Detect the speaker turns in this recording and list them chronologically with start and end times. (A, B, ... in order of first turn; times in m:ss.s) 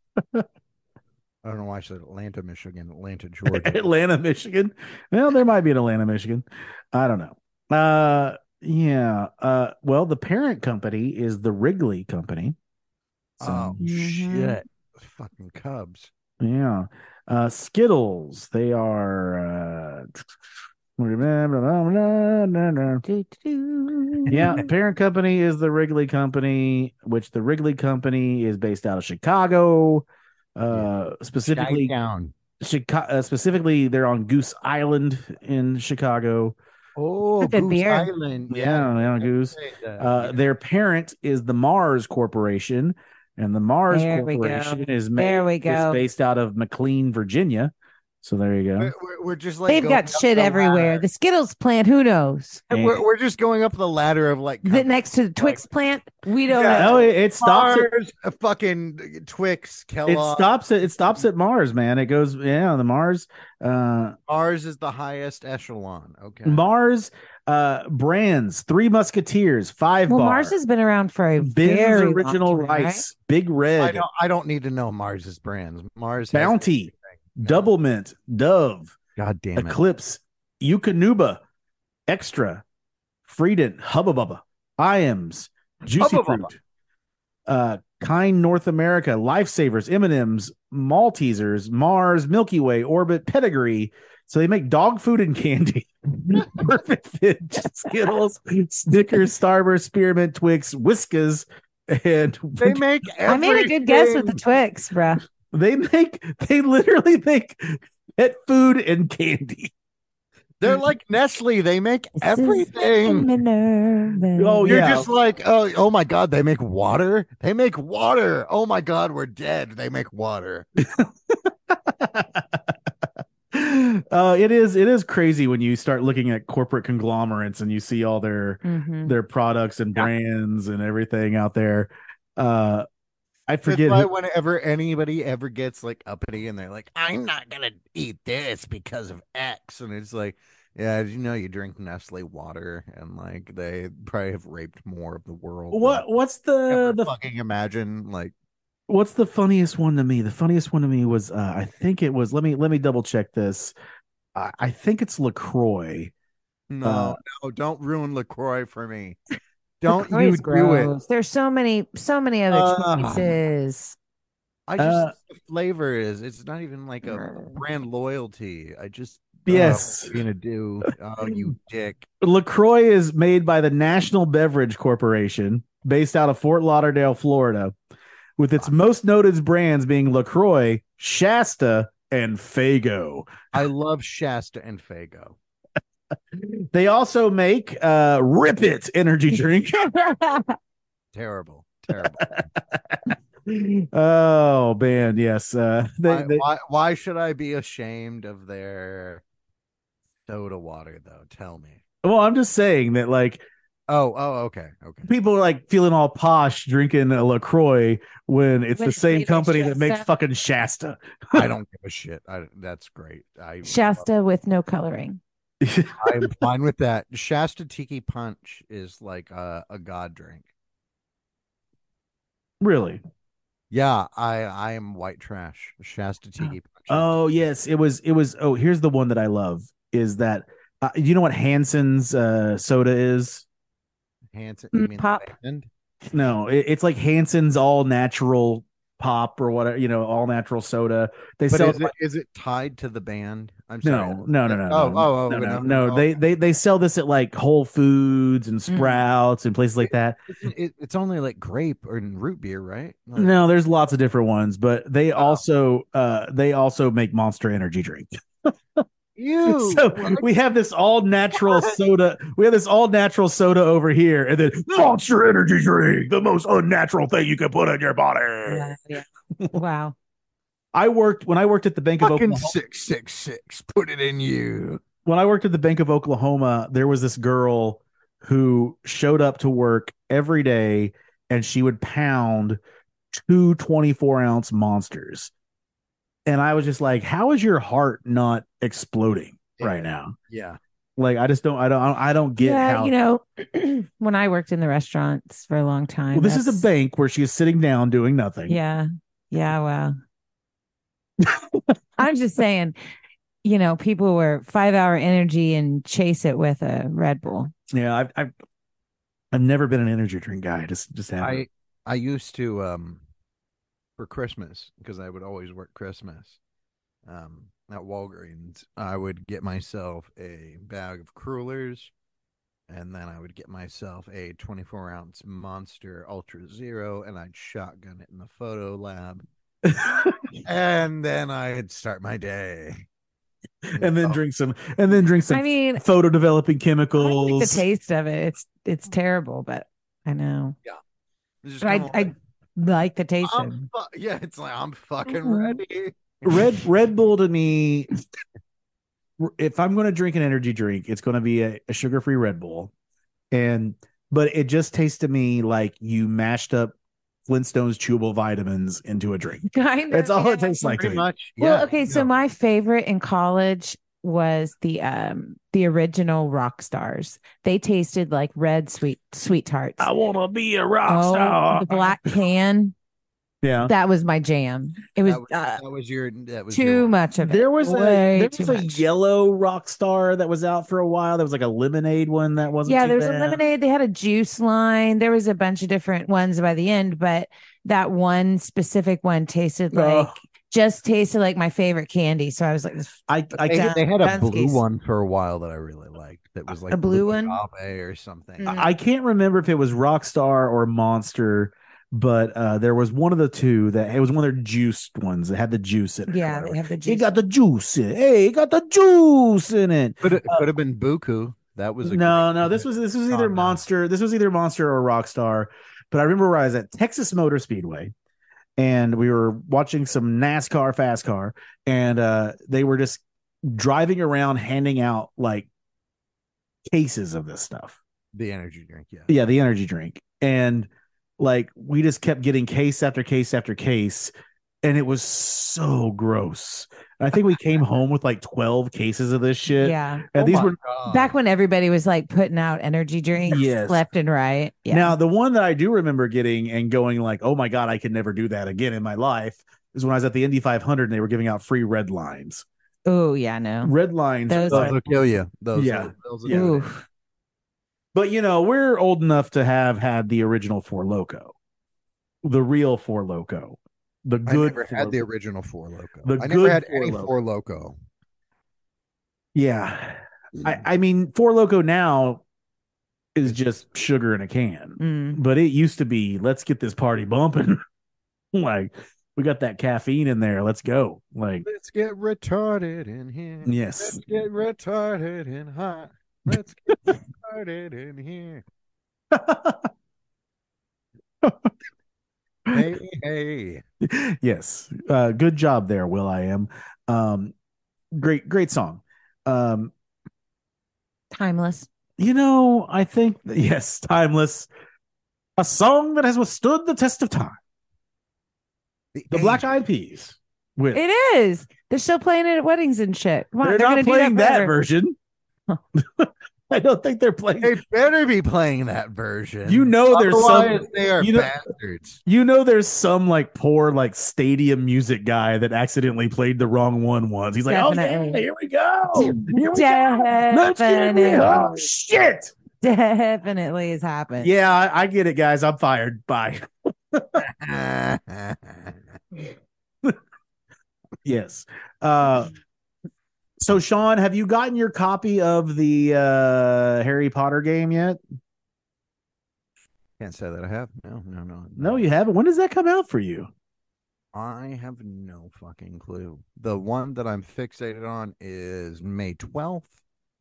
0:00.2-0:00.4 A
0:01.4-0:03.8 B
0:03.5-0:12.6 A
0:13.4-0:13.8 A
0:13.4-0:16.1 B
0:13.8-0:14.6 C
0:16.4-0:20.2 A
0:21.0-0:23.0 A
0:23.1-0:24.7 C
0:24.3-0:30.0 A
0:24.3-0:24.6 B
0:30.6-0:31.9 A
0:30.7-0:32.4 B
0:32.6-0:36.6 A
0:37.0-0:40.4 B
0:37.4-0:38.1 C
0:38.5-0:48.9 A
0:43.9-0:46.0 C
0:48.8-0:51.0 B
0:49.7-0:52.7 C
0:52.7-0:55.6 B
0:52.7-0:53.0 A
0:54.6-0:57.1 C
0:56.5-1:00.5 B
0:56.6-0:57.9 A
1:00.1-1:04.2 A
1:04.3-1:06.7 B
1:06.4-1:10.6 A
1:10.1-1:13.0 C
1:11.4-1:14.0 A
1:13.8-1:17.7 B
1:16.3-1:19.0 A
1:19.2-1:19.8 B
1:19.6-1:21.4 A
1:22.1-1:22.6 A
1:23.2-1:26.6 A
1:26.0-1:26.5 B
1:27.5-1:42.8 A
1:42.6-1:44.4 B
1:43.3-1:45.2 C
1:45.5-1:49.7 A
1:50.6-1:53.3 B
1:52.2-1:55.0 C
1:54.4-1:55.1 A
1:54.6-2:00.7 B
2:00.8-2:02.4 A
2:03.5-2:12.9 A
2:08.6-2:09.2 C
2:13.5-2:14.1 A
2:13.7-2:26.0 B
2:25.7-2:27.1 A
2:26.7-2:28.3 B
2:28.9-2:33.7 A
2:34.4-2:36.1 A
2:36.7-2:39.2 B
2:36.8-2:37.2 A
2:39.8-2:40.9 B
2:39.9-2:44.0 C
2:42.5-2:43.4 B
2:44.7-2:52.1 B
2:44.8-2:45.1 A
2:49.5-2:50.2 A
2:52.2-2:57.7 A
2:58.4-3:03.5 A
3:03.5-3:05.4 B
3:06.4-3:10.0 A
3:10.0-3:10.5 C
3:11.1-3:12.4 B
3:12.0-3:16.4 A
3:16.1-3:19.2 B
3:20.3-3:21.8 B
3:22.0-3:23.5 A
3:23.9-3:25.1 B
3:25.1-3:31.5 A
3:28.8-3:30.1 C
3:31.3-3:34.1 B
3:33.6-3:35.2 C
3:35.6-3:36.3 A
3:36.0-3:40.5 B
3:42.6-3:43.0 A
3:43.7-3:47.2 B
3:46.9-3:53.4 A
3:54.3-3:55.7 B
3:54.7-3:55.3 C
3:56.1-4:01.9 A
4:01.5-4:06.2 B
4:03.8-4:10.2 A
4:08.7-4:09.0 C
4:10.3-4:13.4 B
4:13.2-4:18.8 A
4:15.2-4:15.4 B
4:19.2-4:20.3 B
4:19.4-4:28.7 A
4:21.3-4:21.8 B
4:28.5-4:30.0 C
4:30.7-4:32.5 A
4:32.0-4:34.8 B
4:35.0-4:42.6 A
4:43.1-4:45.3 A
4:46.3-4:50.2 A
4:49.6-4:50.6 B
4:51.0-4:52.9 A
4:52.4-4:56.6 C
4:56.1-4:58.6 A
4:58.5-5:00.0 C
5:01.2-5:01.7 A
5:02.0-5:02.8 C
5:03.4-5:07.5 C
5:07.7-5:08.3 A
5:09.3-5:11.4 A
5:11.2-5:13.0 B
5:14.0-5:16.4 B
5:17.1-5:21.9 B
5:22.7-5:29.2 B
5:29.6-5:30.4 A
5:30.4-5:32.9 B
5:33.7-5:34.2 B
5:33.7-5:37.6 A
5:35.3-5:35.8 C
5:37.0-5:40.6 C
5:41.4-5:42.1 B
5:41.6-5:43.6 C
5:43.2-5:46.6 B
5:45.2-5:45.6 C
5:46.2-5:47.9 A
5:49.2-5:52.7 A
5:53.3-5:56.7 A
5:57.3-6:01.1 A
5:59.5-6:09.9 C
6:00.6-6:02.1 B
6:09.8-6:12.2 A
6:10.9-6:12.8 C
6:13.4-6:13.7 A
6:13.6-6:15.6 C
6:15.0-6:16.9 B
6:16.5-6:18.8 C
6:17.2-6:23.4 A
6:22.7-6:32.9 C
6:29.7-6:30.2 A
6:33.1-6:33.7 A
6:33.4-6:38.6 B
6:33.5-6:34.6 C
6:36.7-6:37.4 C
6:38.4-6:38.7 C
6:38.5-6:50.5 A
6:46.1-6:47.1 C
6:50.0-6:53.6 B
6:51.9-6:57.9 A
6:58.6-7:05.5 A
7:06.7-7:07.8 A
7:08.2-7:09.1 B
7:09.1-7:14.1 A
7:14.6-7:20.6 A
7:19.5-7:20.0 C
7:20.2-7:21.2 B
7:20.9-7:25.0 C
7:23.3-7:23.8 A
7:24.7-7:32.4 A
7:32.9-7:33.7 C
7:33.6-7:34.8 A
7:34.3-7:34.7 C
7:34.5-7:36.6 B
7:35.5-7:36.6 A
7:36.3-7:36.8 C
7:37.9-7:41.3 A
7:42.2-7:45.0 A
7:44.3-7:47.8 B
7:46.0-7:47.1 A
7:49.4-7:52.2 A
7:53.2-7:57.6 A
7:53.3-7:53.6 B
7:54.8-7:55.2 C
7:58.3-8:01.5 A
8:01.4-8:08.4 B
8:03.4-8:04.0 A
8:09.1-8:09.7 A
8:11.2-8:11.5 A
8:12.5-8:13.6 B
8:13.8-8:17.3 A
8:17.9-8:19.7 A
8:21.1-8:21.7 C
8:22.0-8:24.5 A
8:25.4-8:27.4 A
8:28.9-8:29.5 B
8:29.1-8:30.8 A
8:30.7-8:34.5 C
8:33.4-8:35.0 A
8:35.8-8:37.6 A
8:37.4-8:42.0 B
8:39.5-8:41.3 A
8:42.0-8:52.4 A
8:47.5-8:48.2 C
8:49.0-8:51.5 C
8:52.6-8:54.3 C
8:54.2-8:57.3 A
8:57.2-8:59.0 B
9:01.0-9:02.3 A
9:03.4-9:08.0 A
9:10.0-9:11.8 B
9:11.6-9:13.3 A
9:14.1-9:19.8 B